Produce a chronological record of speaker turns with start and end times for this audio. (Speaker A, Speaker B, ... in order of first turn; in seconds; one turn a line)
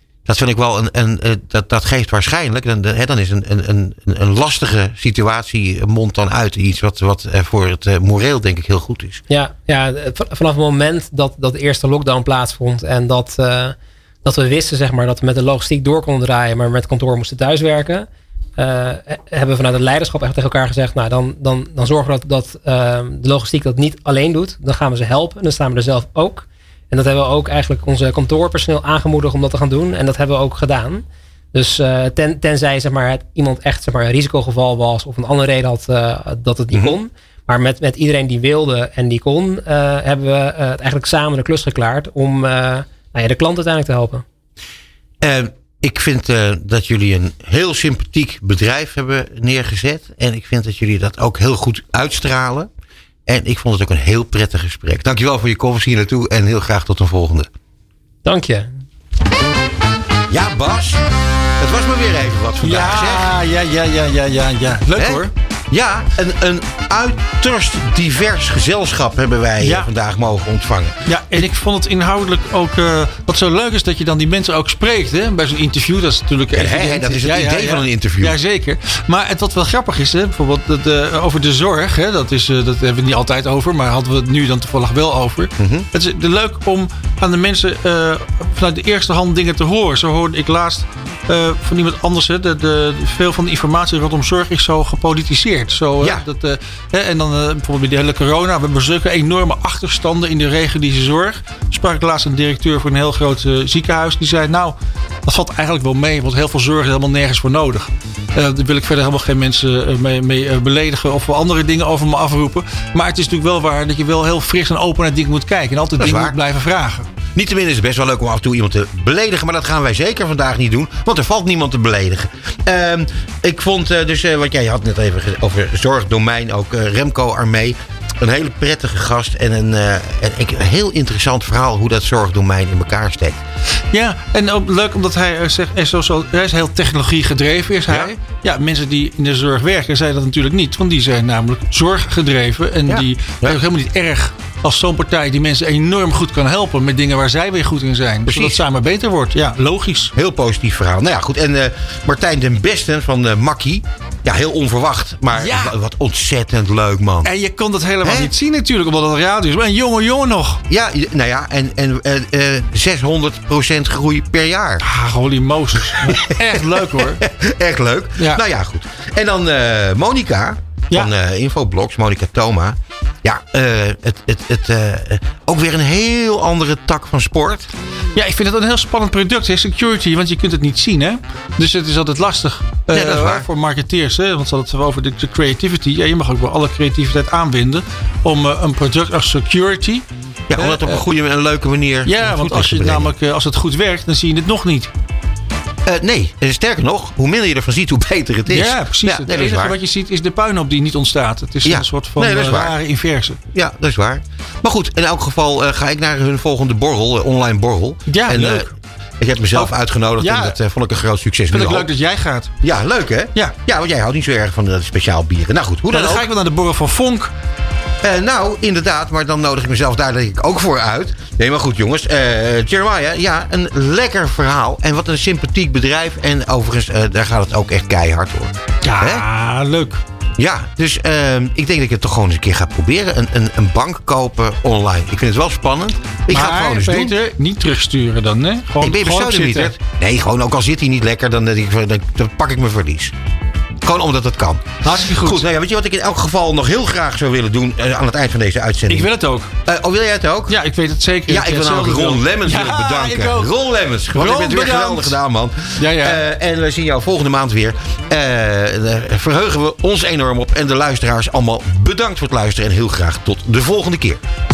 Speaker A: 0.3-9.2
Speaker B: 9.3-44.2
Speaker A: 36.7-37.0
Speaker A: 45.2-52.7
Speaker A: 53.3-57.5
Speaker B: 58.2-58.7
Speaker A: 60.3-61.0
Speaker A: 61.6-63.3
Speaker C: 62.6-65.3
Speaker A: 65.0-71.0
Speaker C: 69.6-69.9
Speaker C: 71.1-117.1
Speaker A: 76.5-78.4
Speaker A: 85.6-85.9
Speaker A: 96.0-96.3
Speaker A: 116.0-116.4
Speaker A: 117.3-133.4
Speaker C: 133.9-150.1
Speaker A: 137.9-138.1
Speaker A: 142.9-143.6
Speaker A: 148.2-148.6
Speaker A: 150.1-157.3
Speaker C: 155.4-155.8
Speaker C: 157.2-160.6
Speaker A: 158.0-158.3
Speaker A: 160.7-164.8
Speaker C: 164.8-167.2
Speaker A: 165.8-177.7
Speaker C: 168.2-168.4
Speaker C: 178.1-191.0
Speaker A: 182.9-183.5
Speaker A: 190.5-193.1
Speaker C: 192.1-194.9
Speaker A: 195.8-199.8
Speaker C: 198.5-203.4
Speaker A: 201.6-202.8
Speaker A: 203.5-211.9
Speaker C: 208.1-208.7
Speaker C: 209.5-210.6
Speaker C: 211.5-212.5
Speaker A: 212.6-216.3
Speaker C: 215.9-217.3
Speaker A: 218.0-229.3
Speaker C: 228.8-230.0
Speaker A: 230.4-237.2
Speaker C: 236.3-239.7
Speaker A: 238.8-243.1
Speaker A: 243.8-249.1
Speaker C: 244.8-245.4
Speaker C: 248.9-249.5
Speaker A: 249.7-250.6
Speaker C: 250.5-253.5
Speaker A: 251.3-264.2
Speaker C: 254.1-255.2
Speaker C: 255.8-256.2